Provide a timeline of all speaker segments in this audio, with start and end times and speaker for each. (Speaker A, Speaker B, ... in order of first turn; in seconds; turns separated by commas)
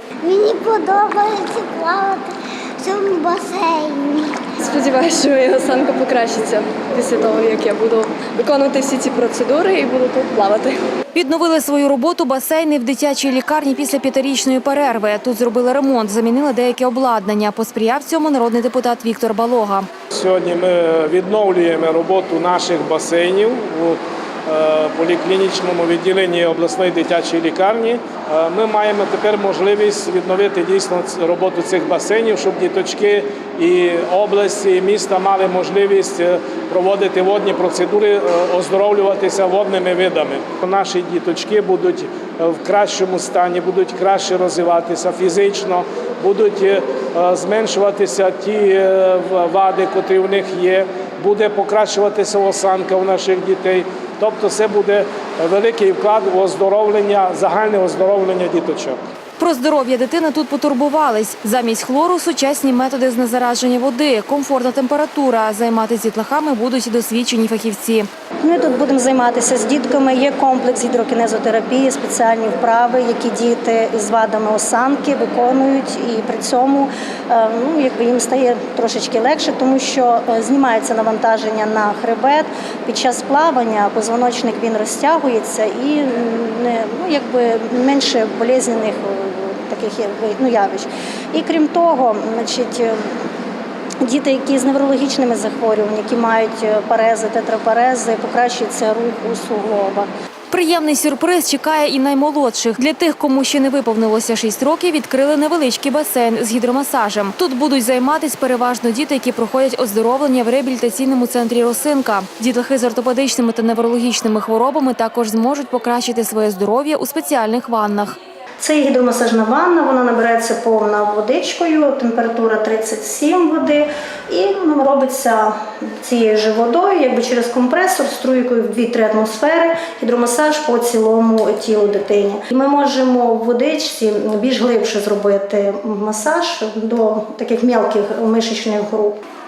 Speaker A: 0.2-2.1, Speaker A: 2.8-4.1, Speaker B: 4.6-10.8, Speaker C: 11.2-19.9, Speaker D: 20.1-59.0, Speaker C: 59.4-68.1, Speaker E: 68.4-93.0, Speaker E: 94.0-100.1, Speaker C: 100.5-118.2, Speaker E: 118.6-139.2